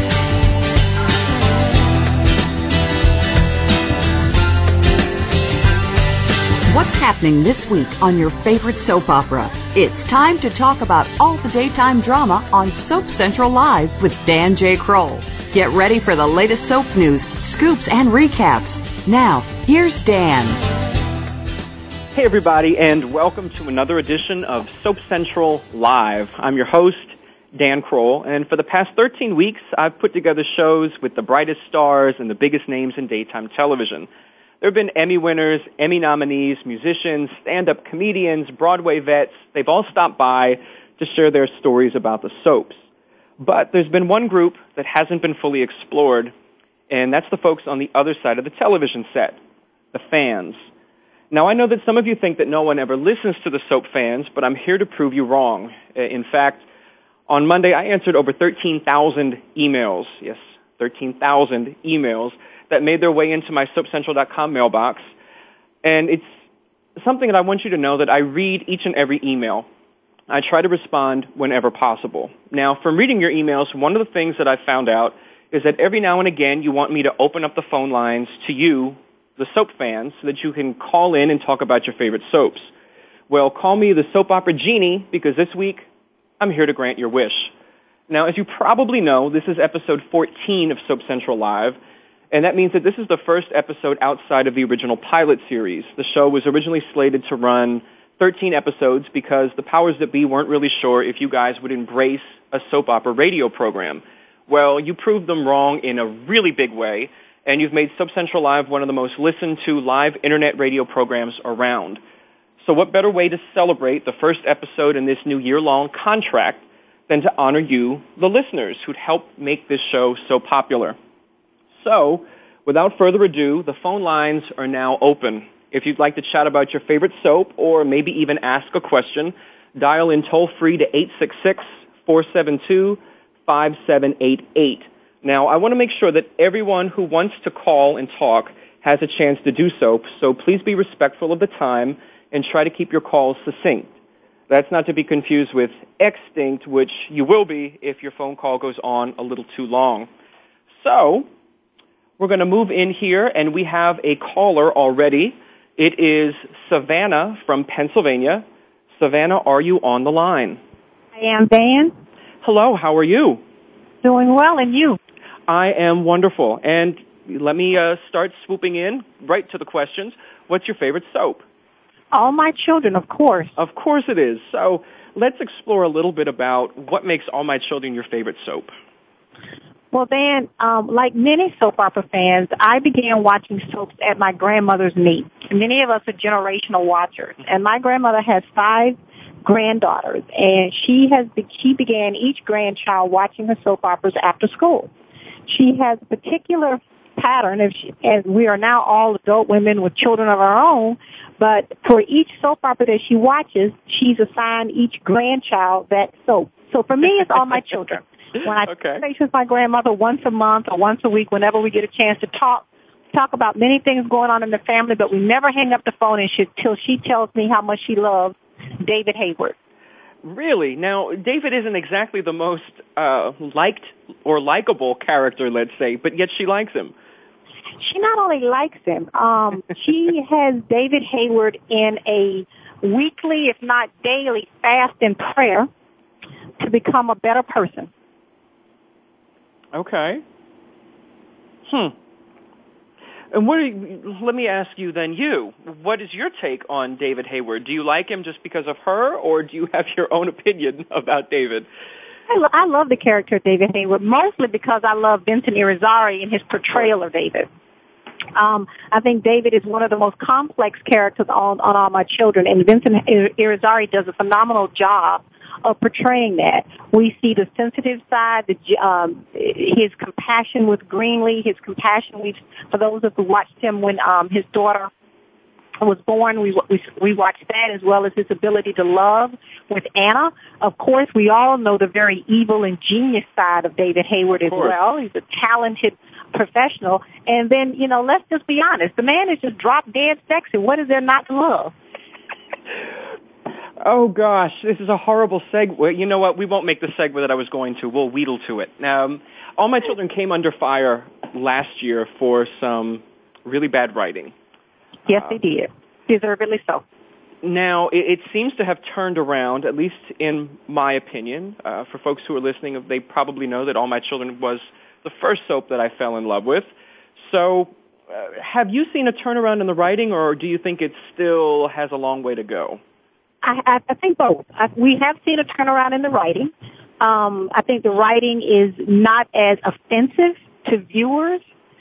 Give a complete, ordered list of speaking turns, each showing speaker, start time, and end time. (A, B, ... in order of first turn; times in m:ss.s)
0:06.7-0:20.6 A
0:22.1-0:34.1 B
0:34.6-0:42.8 B
0:43.4-0:46.3 B
0:46.9-0:49.4 B
0:49.9-0:50.7 B
0:51.3-0:56.6 B
0:57.3-1:05.1 B
1:05.8-1:06.4 B
1:07.0-1:09.7 B
1:10.3-1:22.7 B
1:23.3-1:25.8 B
1:26.4-1:27.5 B
1:28.1-1:31.8 B
1:32.3-1:52.0 B
1:52.6-2:01.0 B
2:01.8-2:23.9 B
2:24.5-2:30.1 B
2:30.8-2:31.3 B
2:32.2-2:40.6 B
2:41.1-2:41.9 C
2:42.4-2:43.4 B
2:44.0-2:45.0 C
2:45.5-2:51.4 B
2:52.1-2:53.5 C
2:53.6-2:58.7 B
2:59.9-3:14.9 C
3:15.5-3:39.5 C
3:28.6-3:29.0 B
3:40.2-3:46.9 B
3:47.8-3:55.7 C
3:56.6-3:57.9 C
3:59.7-4:00.2 B
4:01.7-4:01.9 B
4:03.3-4:11.7 B
4:12.3-4:17.5 C
4:18.3-4:34.9 C
4:35.8-4:51.7 C
4:44.5-4:44.7 B
4:53.8-5:04.3 B
5:05.1-5:06.8 C
5:05.1-5:05.4 B
5:07.4-5:16.7 B
5:17.2-5:22.8 B
5:23.4-5:31.4 C